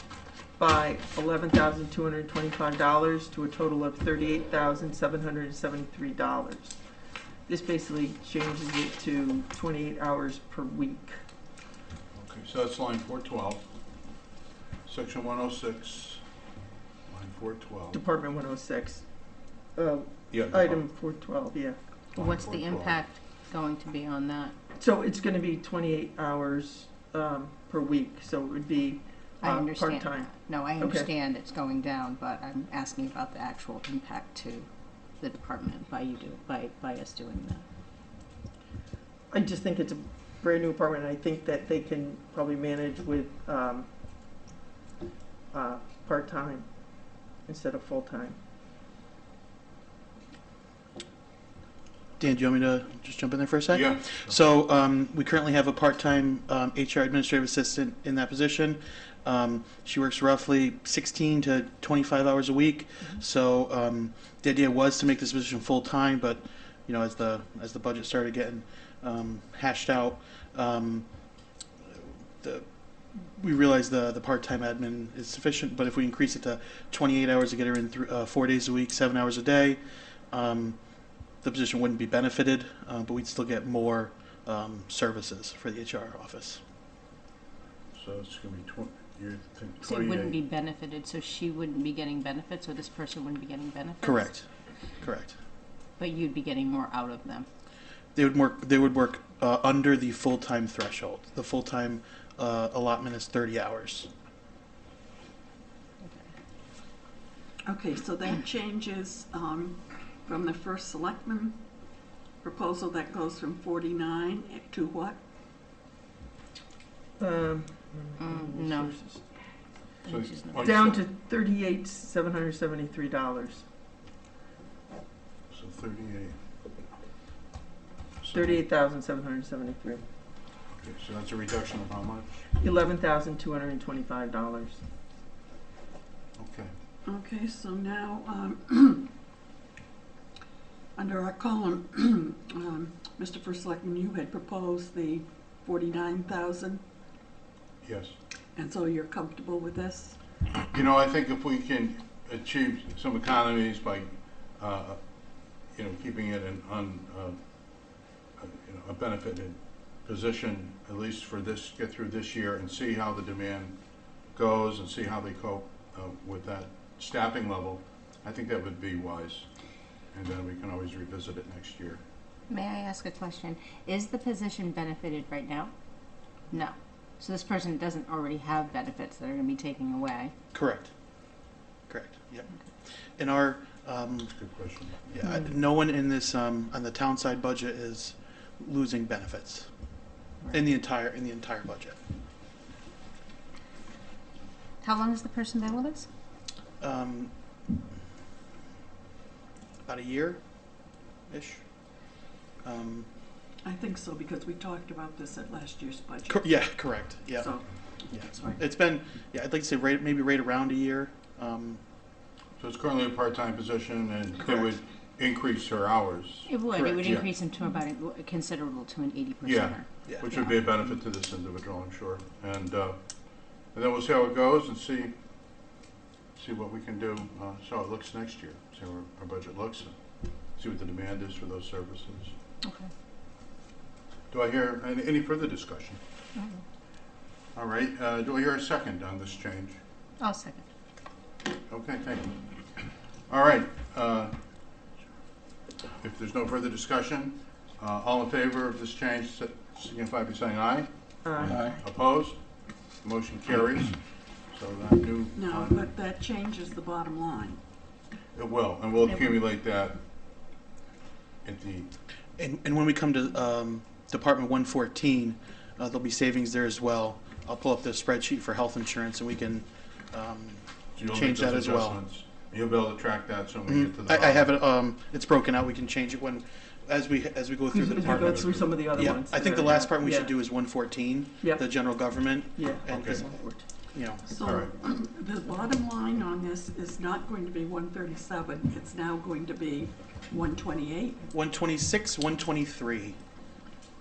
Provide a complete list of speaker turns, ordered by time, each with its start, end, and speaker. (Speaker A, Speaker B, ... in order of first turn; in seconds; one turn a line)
Speaker A: 0.6-6.8
Speaker A: 7.5-11.2
Speaker B: 12.1-13.7
Speaker B: 14.8-16.2
Speaker B: 17.1-18.0
Speaker A: 17.9-21.8
Speaker B: 20.3-20.9
Speaker B: 22.1-23.0
Speaker C: 22.1-24.6
Speaker A: 24.8-31.1
Speaker C: 29.4-37.6
Speaker A: 39.3-43.9
Speaker A: 45.5-48.4
Speaker D: 52.2-71.3
Speaker B: 53.7-54.4
Speaker D: 71.9-79.8
Speaker D: 80.3-86.6
Speaker B: 88.0-90.4
Speaker C: 89.8-94.3
Speaker D: 94.0-95.4
Speaker C: 96.0-97.5
Speaker D: 98.2-104.1
Speaker E: 107.7-111.6
Speaker E: 112.4-115.2
Speaker A: 117.2-119.2
Speaker C: 118.2-119.0
Speaker C: 120.0-120.7
Speaker B: 120.1-121.0
Speaker A: 120.6-123.7
Speaker B: 125.5-126.4
Speaker B: 128.2-128.6
Speaker A: 128.3-130.0
Speaker B: 130.7-132.4
Speaker A: 132.6-134.8
Speaker B: 136.4-136.7
Speaker E: 137.1-139.1
Speaker E: 141.0-146.8
Speaker B: 147.8-148.2
Speaker E: 148.6-150.2
Speaker B: 150.7-163.8
Speaker B: 164.3-169.5
Speaker B: 170.1-172.0
Speaker C: 172.5-175.7
Speaker C: 176.5-180.3
Speaker D: 180.5-180.9
Speaker D: 181.9-182.5
Speaker D: 183.2-184.3
Speaker B: 184.3-185.1
Speaker D: 185.0-189.7
Speaker D: 190.5-192.0
Speaker C: 194.8-196.1
Speaker D: 196.8-197.3
Speaker D: 199.8-203.1
Speaker E: 203.6-206.4
Speaker D: 206.3-211.8
Speaker B: 212.6-217.3
Speaker D: 214.4-214.8
Speaker C: 216.5-220.6
Speaker B: 219.4-225.2
Speaker B: 226.4-230.0
Speaker B: 230.6-232.3
Speaker C: 232.6-232.9
Speaker B: 234.3-236.0
Speaker C: 236.4-236.6
Speaker B: 237.6-239.8
Speaker C: 240.2-240.6
Speaker B: 241.7-244.4
Speaker B: 246.0-252.4
Speaker A: 251.2-251.6
Speaker D: 251.4-251.8
Speaker B: 253.0-255.8
Speaker E: 255.4-257.6
Speaker B: 258.3-260.0
Speaker B: 261.4-261.9
Speaker D: 262.4-272.0
Speaker B: 271.0-274.5
Speaker D: 273.7-284.4
Speaker A: 277.7-280.4
Speaker A: 282.6-283.7
Speaker B: 282.9-283.2
Speaker E: 284.3-291.2
Speaker B: 284.4-284.7
Speaker D: 291.3-293.2